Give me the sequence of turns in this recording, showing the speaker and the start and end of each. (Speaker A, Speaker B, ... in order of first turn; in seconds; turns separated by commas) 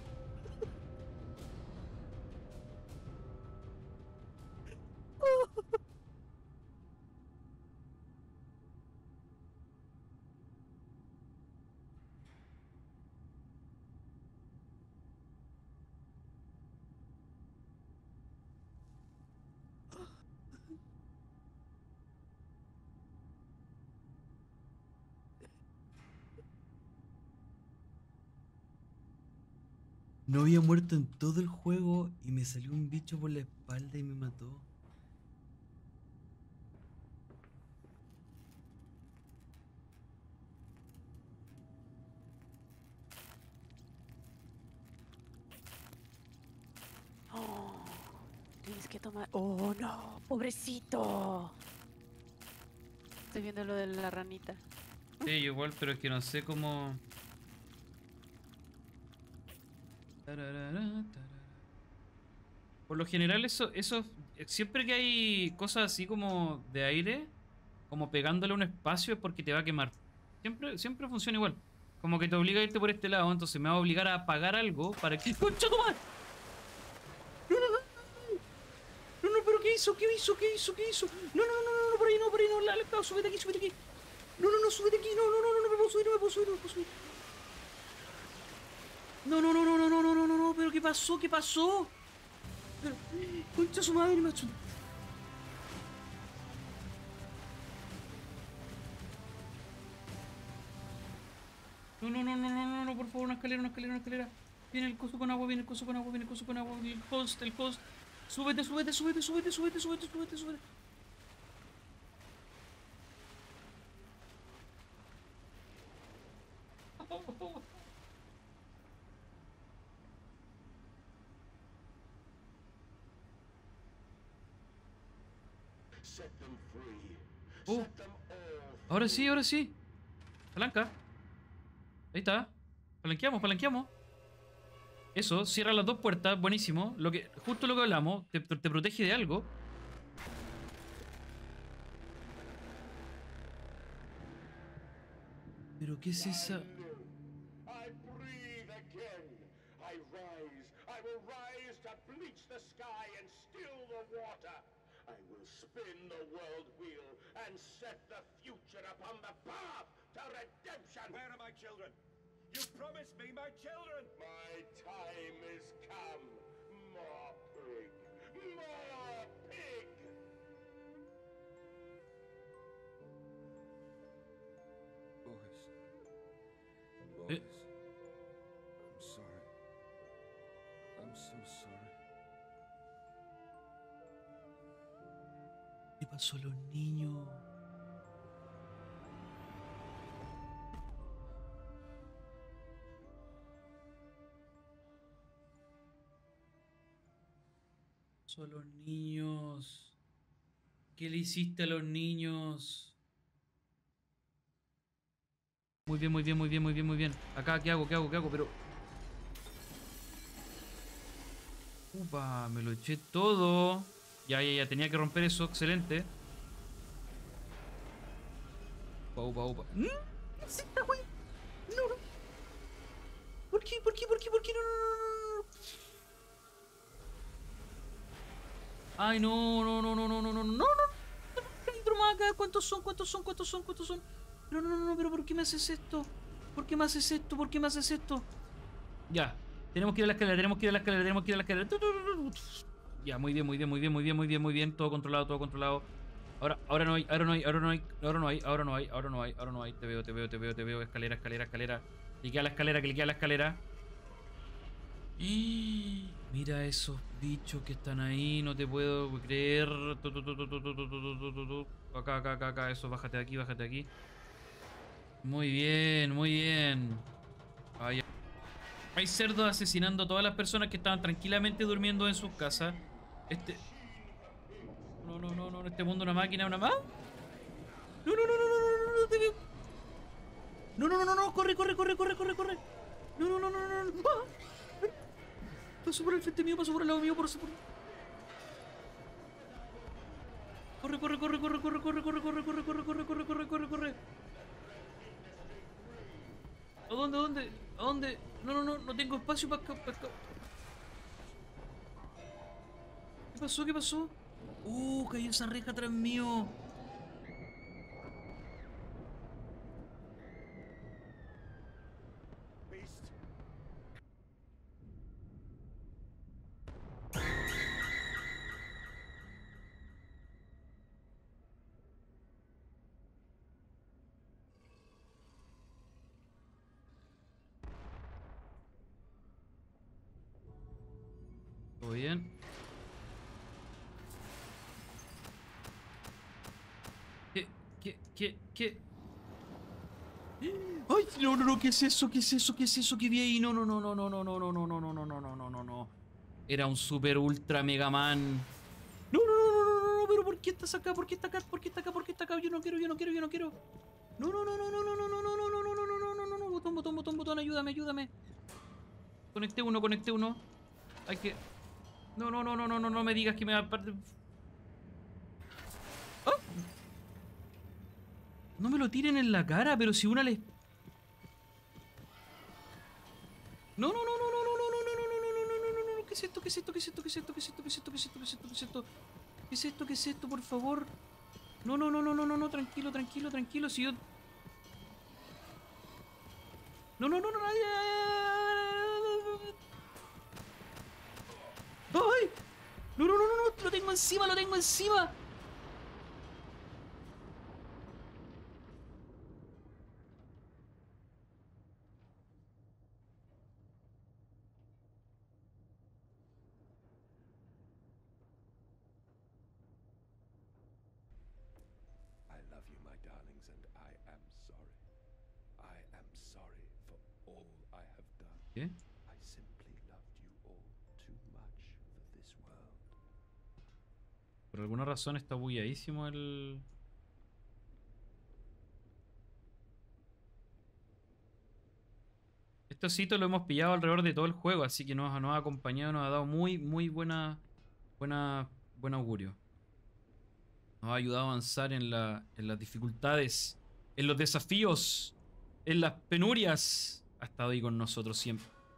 Speaker A: 5.2-5.6, Speaker B: 30.3-34.7, Speaker A: 47.3-51.6, Speaker A: 53.3-54.6, Speaker B: 55.2-57.0, Speaker B: 60.2-61.6, Speaker B: 62.9-67.3, Speaker B: 67.9-76.0, Speaker B: 77.5-78.4, Speaker B: 79.2-83.8, Speaker B: 84.4-86.9, Speaker B: 89.2-92.0, Speaker B: 92.8-94.6, Speaker B: 102.0-110.6, Speaker B: 117.0-117.7, Speaker C: 126.0-129.4, Speaker B: 128.9-129.8, Speaker B: 130.6-131.0, Speaker B: 132.1-133.9, Speaker B: 135.2-139.5, Speaker B: 145.8-146.7, Speaker C: 146.1-161.3, Speaker D: 161.4-161.9, Speaker D: 163.2-163.9, Speaker C: 164.0-170.2, Speaker D: 175.3-175.7, Speaker D: 177.2-177.5, Speaker D: 179.0-179.4, Speaker D: 181.0-181.9, Speaker B: 186.0-187.4, Speaker B: 198.3-200.0, Speaker B: 200.9-202.9, Speaker B: 205.9-208.6, Speaker B: 211.9-216.1, Speaker B: 219.2-221.1, Speaker B: 221.7-222.0, Speaker B: 223.5-225.5, Speaker B: 229.0-238.3, Speaker B: 239.1-253.6, Speaker B: 255.2-263.9, Speaker B: 265.2-267.1, Speaker B: 268.9-273.6, Speaker C: 273.3-275.0, Speaker B: 275.0-276.8, Speaker B: 278.1-279.4, Speaker B: 280.8-282.6, Speaker B: 283.2-284.3, Speaker B: 285.8-287.6, Speaker B: 290.8-294.0, Speaker C: 294.6-296.4, Speaker B: 296.9-300.2, Speaker B: 303.3-306.5, Speaker C: 312.7-313.1, Speaker B: 331.8-332.3, Speaker B: 337.3-338.8, Speaker B: 340.4-345.9, Speaker B: 346.5-348.5, Speaker B: 349.1-353.6, Speaker B: 354.2-358.1, Speaker B: 359.3-360.4, Speaker B: 361.1-361.4, Speaker B: 362.2-364.1, Speaker B: 366.3-366.6, Speaker B: 368.6-370.4, Speaker B: 373.8-378.9, Speaker B: 379.5-380.9, Speaker B: 381.6-384.0, Speaker B: 387.0-389.6, Speaker B: 391.9-392.4, Speaker B: 393.0-395.2, Speaker D: 412.3-414.8, Speaker D: 415.6-418.5, Speaker D: 419.1-422.9, Speaker B: 424.5-426.7, Speaker B: 432.7-437.4, Speaker B: 438.0-439.4, Speaker B: 440.8-448.5